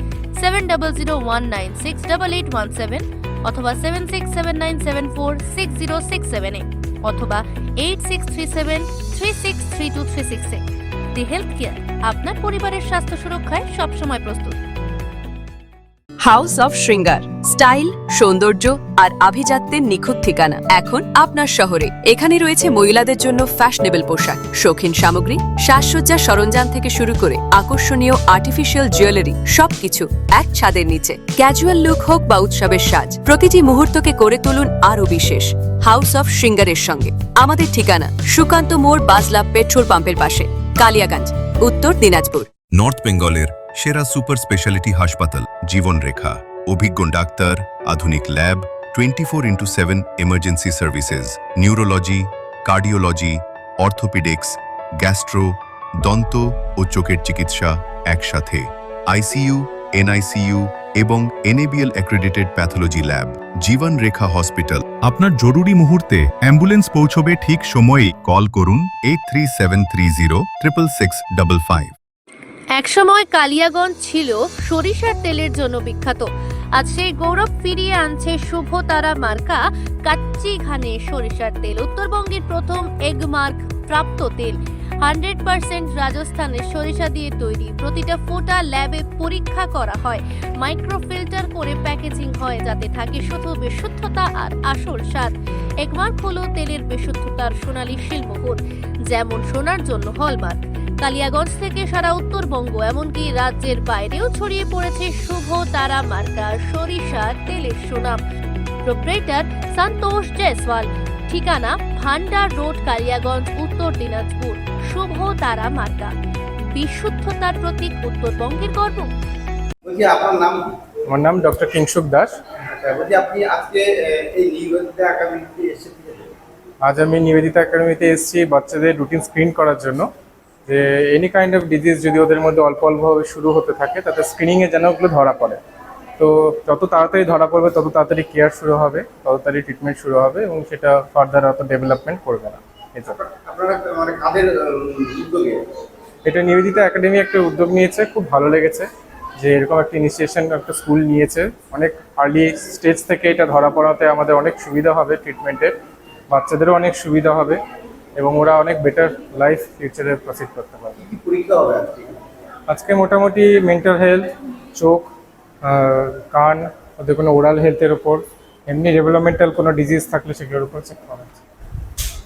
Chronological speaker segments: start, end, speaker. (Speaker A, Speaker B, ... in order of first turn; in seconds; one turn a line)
Speaker A: 0.4-10.6
Speaker A: 11.2-14.6
Speaker B: 16.2-42.5
Speaker C: 42.7-72.0
Speaker A: 72.8-108.2
Speaker A: 108.9-116.1
Speaker A: 116.7-119.1
Speaker D: 119.8-120.8
Speaker E: 121.1-122.3
Speaker D: 122.8-126.3
Speaker E: 126.8-130.1
Speaker E: 130.7-135.6
Speaker E: 136.2-143.2
Speaker D: 143.1-145.6
Speaker E: 146.2-148.9
Speaker E: 149.4-155.8
Speaker E: 156.3-157.6
Speaker E: 158.2-161.0
Speaker D: 161.0-162.2
Speaker E: 162.7-165.1
Speaker E: 165.6-171.4